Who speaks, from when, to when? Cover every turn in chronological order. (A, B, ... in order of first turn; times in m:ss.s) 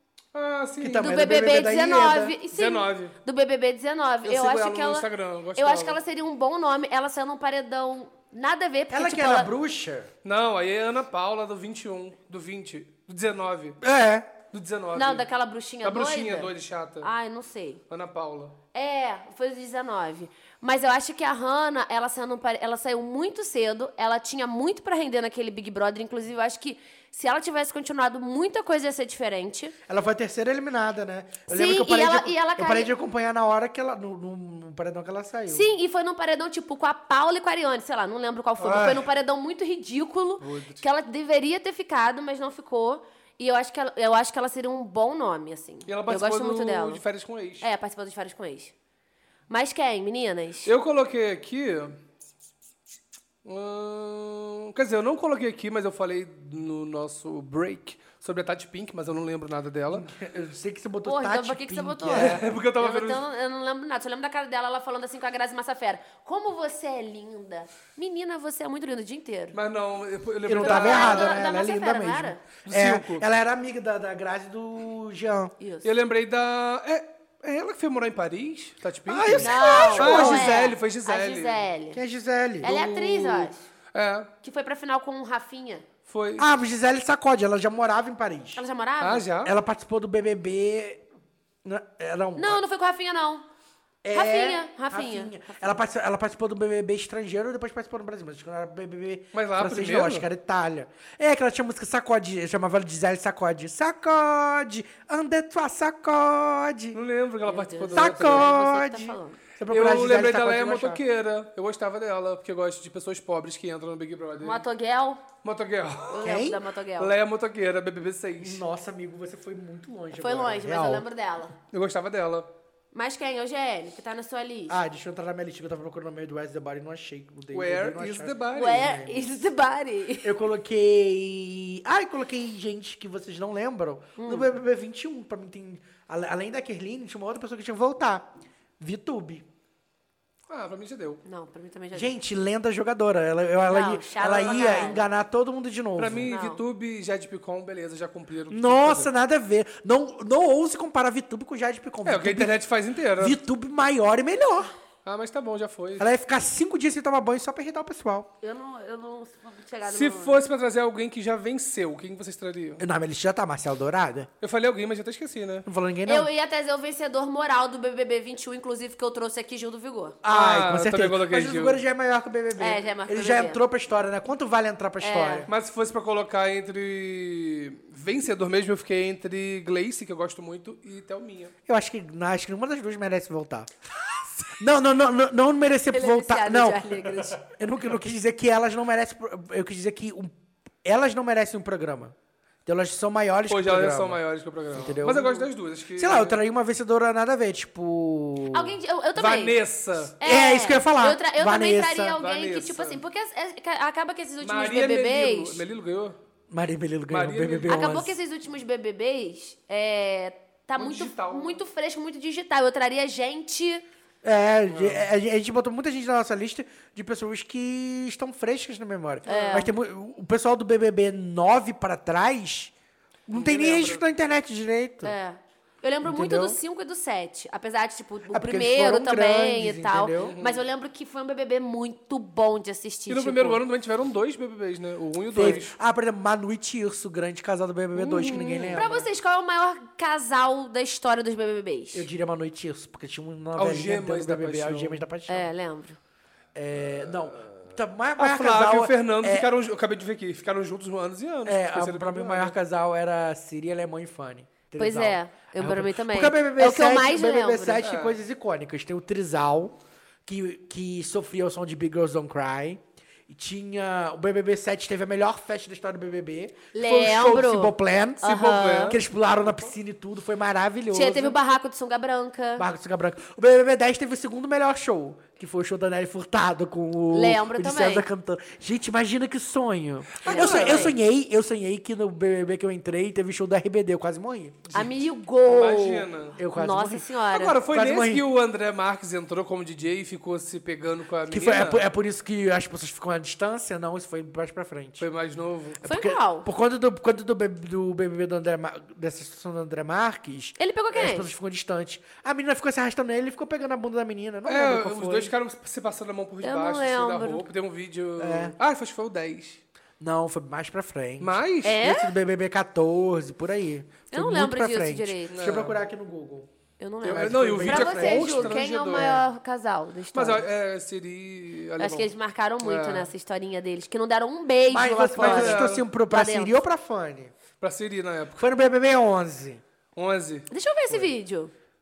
0:00.3-0:01.2 A
0:00.8-0:02.4 B
0:01.0-0:09.5 C
0:02.5-0:03.1 A
0:04.2-0:06.0 A
0:08.9-0:10.1 B
0:10.2-0:13.8 A
0:13.8-0:14.3 B
0:14.5-0:15.2 A
0:14.9-0:16.5 C
0:15.8-0:17.1 A
0:17.0-0:17.8 C
0:17.9-0:18.6 A
0:18.7-0:29.7 C
0:29.9-0:35.7 B
0:31.5-0:32.9 C
0:35.5-0:47.0 C
0:38.6-0:39.1 A
0:40.4-0:40.8 A
0:45.9-0:47.7 A
0:47.6-0:48.7 C
0:49.5-0:50.7 C
0:50.6-0:52.0 A
0:53.4-1:00.1 A
0:59.9-1:02.4 B
1:01.0-1:09.6 C
1:02.1-1:03.2 A
1:09.5-1:11.4 A
1:10.4-1:15.5 B
1:10.6-1:12.4 C
1:12.6-1:13.2 A
1:15.6-1:15.9 C
1:15.8-1:21.6 A
1:19.1-1:20.7 B
1:19.4-1:22.0 C
1:21.9-1:22.7 B
1:22.6-1:24.3 A
1:22.6-1:23.6 C
1:24.4-1:25.8 C
1:26.1-1:26.5 A
1:26.4-1:28.6 B
1:28.6-1:29.2 C
1:29.0-1:29.5 A
1:29.4-1:31.0 B
1:31.6-1:32.6 B
1:32.4-1:33.4 C
1:34.0-1:47.0 B
1:34.1-1:35.8 C
1:39.3-1:40.3 A
1:46.9-1:48.5 A
1:47.5-1:49.4 C
1:47.9-1:51.0 B
1:49.7-1:54.6 A
1:54.4-1:55.2 C
1:55.4-1:56.3 A
1:56.1-1:57.1 C
1:56.2-1:56.6 B
1:57.0-1:58.6 A
1:58.4-2:01.0 B
2:00.1-2:01.5 C
2:01.7-2:02.5 A
2:02.9-2:04.8 C
2:04.7-2:09.2 B
2:07.5-2:08.9 A
2:08.5-2:10.3 C
2:10.2-2:19.4 B
2:14.2-2:14.5 C
2:20.5-2:21.2 A
2:21.2-2:22.1 C
2:21.9-2:26.3 B
2:23.7-2:25.0 C
2:26.0-2:29.1 A
2:26.3-2:26.6 C
2:28.5-2:32.6 B
2:32.0-2:33.4 A
2:33.2-2:34.7 B
2:35.0-2:36.1 A
2:36.0-2:38.3 B
2:38.4-2:40.4 C
2:39.9-2:42.8 A
2:42.8-2:44.3 B
2:44.4-2:45.6 A
2:45.6-2:46.3 B
2:46.0-2:50.2 C
2:50.2-2:55.5 B
2:50.3-2:51.8 A
2:52.6-2:53.6 C
2:55.0-2:55.5 C
2:55.5-3:01.5 A
3:01.7-3:03.7 B
3:04.5-3:10.3 B
3:05.9-3:07.4 C
3:10.8-3:12.1 B
3:12.6-3:14.2 B
3:13.5-3:16.4 A
3:14.7-3:18.8 B
3:18.5-3:19.6 C
3:19.1-3:20.2 A
3:20.2-3:25.6 C
3:20.2-3:22.2 B
3:22.2-3:23.0 A
3:24.4-3:26.2 A
3:26.5-3:28.1 B
3:27.1-3:27.9 A
3:27.7-3:33.8 C
3:30.8-3:31.6 A
3:34.2-3:42.7 B
3:34.7-3:35.0 A
3:39.2-3:39.7 C
3:43.3-3:45.1 B
3:43.3-3:44.0 A
3:45.0-3:53.6 C
3:46.0-3:46.6 B
3:48.3-3:50.4 B
3:50.2-3:50.6 A
3:53.1-3:55.7 A
3:55.3-3:59.0 B
3:58.0-4:02.1 C
3:58.2-3:58.8 A
4:01.9-4:05.5 B
4:03.6-4:05.0 A
4:05.3-4:06.0 C
4:06.5-4:09.5 B
4:08.2-4:12.5 A
4:11.4-4:28.2 B
4:14.8-4:17.8 C
4:17.8-4:18.2 A
4:26.7-4:29.0 C
4:28.2-4:29.0 A
4:28.8-4:31.4 B
4:30.9-4:32.6 C
4:32.6-4:44.9 B
4:37.1-4:38.1 C
4:40.2-4:40.9 A
4:40.2-4:40.9 C
4:44.7-4:47.6 C
4:45.5-4:46.4 A
4:46.4-4:47.1 B
4:47.3-4:51.8 A
4:47.6-4:48.2 B
4:51.3-4:55.0 B
4:55.0-4:55.8 A
4:55.8-5:05.3 B
4:55.8-4:56.5 C
5:00.6-5:01.3 C
5:04.4-5:09.6 A
5:06.4-5:07.4 C
5:08.2-5:08.6 B
5:10.0-5:16.5 B
5:11.2-5:11.8 A
5:11.6-5:12.1 C
5:14.1-5:15.3 C
5:15.3-5:15.8 A
5:16.8-5:20.4 C
5:17.0-5:18.6 B
5:17.0-5:19.2 A
5:20.1-5:23.1 A
5:21.8-5:26.6 C
5:24.7-5:27.3 B
5:25.2-5:25.8 A
5:27.6-5:28.4 A
5:28.4-5:29.6 B
5:30.0-5:31.1 A
5:30.5-5:31.5 C